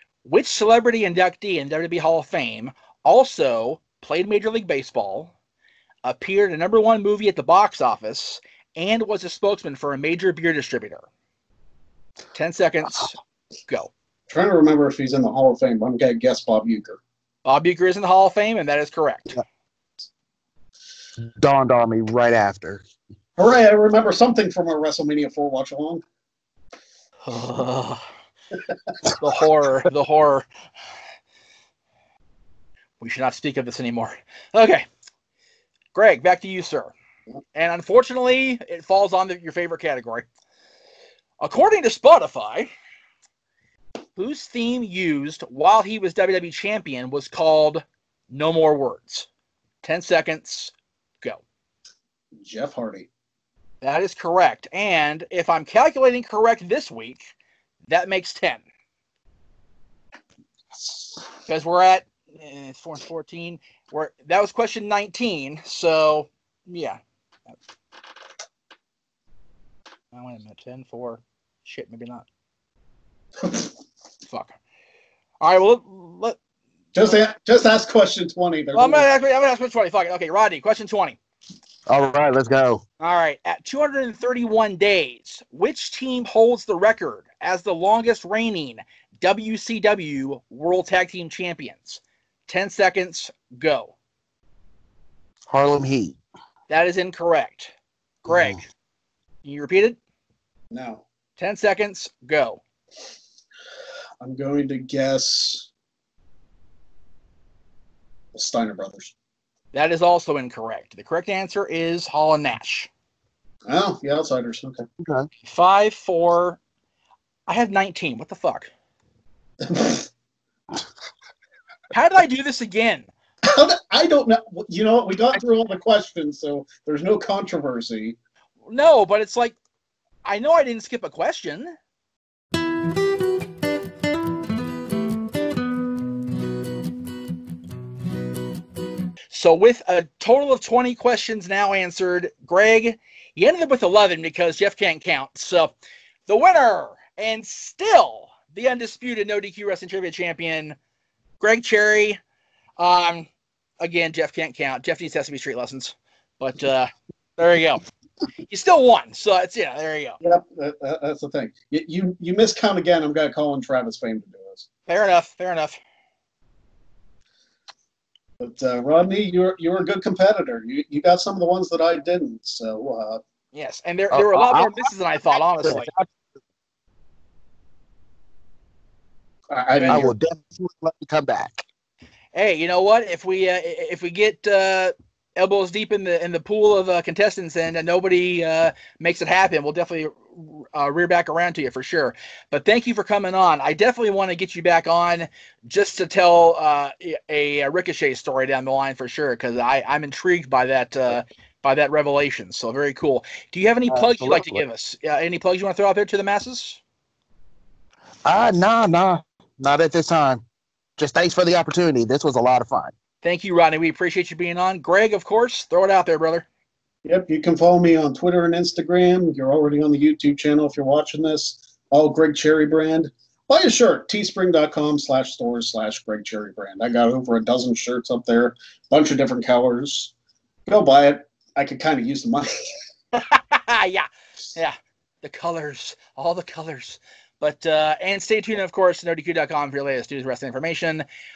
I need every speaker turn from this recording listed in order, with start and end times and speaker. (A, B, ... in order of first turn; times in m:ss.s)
0:00.2-0:05.3 A
0:06.0-0:11.1 A
0:12.3-0:13.9 A
0:14.3-0:17.0 B
0:17.4-0:19.4 A
0:21.2-0:22.8 C
0:23.4-0:26.0 B
0:27.2-0:28.0 A
0:29.2-0:30.5 A
0:33.0-0:34.9 A
0:35.9-0:36.9 A
0:37.5-0:40.3 A
0:41.4-0:42.7 A
0:44.2-0:49.3 A
0:49.8-0:51.4 A
0:52.3-0:53.1 B
0:53.8-0:57.3 A
0:57.9-0:58.6 A
1:01.5-1:07.0 A
1:10.1-1:12.3 A
1:14.3-1:14.6 A
1:15.4-1:16.4 A
1:17.0-1:19.1 B
1:18.8-1:21.2 A
1:21.9-1:22.8 C
1:23.0-1:34.0 A
1:35.5-1:36.2 C
1:36.7-1:37.7 A
1:38.2-1:38.6 A
1:38.3-1:38.6 C
1:39.4-1:40.0 A
1:40.7-1:41.0 B
1:41.4-1:42.6 A
1:44.2-1:45.7 B
1:48.3-1:49.1 B
1:49.7-1:52.9 A
1:53.6-1:54.8 B
1:55.0-1:55.3 C
1:55.4-1:56.6 A
1:57.5-1:58.7 A
1:59.6-2:00.1 B
2:01.9-2:03.1 A
2:03.4-2:08.2 B
2:08.7-2:09.6 A
2:10.2-2:11.7 A
2:19.3-2:25.7 A
2:26.3-2:30.8 A
2:31.4-2:32.2 A
2:32.8-2:33.3 A
2:33.8-2:37.8 A
2:38.5-2:40.2 A
2:40.2-2:44.7 B
2:44.9-2:45.8 A
2:48.4-2:53.2 B
2:53.5-2:55.9 A
2:54.1-2:54.9 C
2:55.6-2:56.2 C
2:59.5-3:00.1 B
2:59.9-3:01.6 C
3:02.3-3:26.8 A
3:23.9-3:24.6 C
3:28.2-3:30.4 C
3:31.0-3:32.9 C
3:33.2-3:36.5 A
3:37.0-3:50.1 B
3:50.7-3:52.6 B
3:53.1-4:01.0 A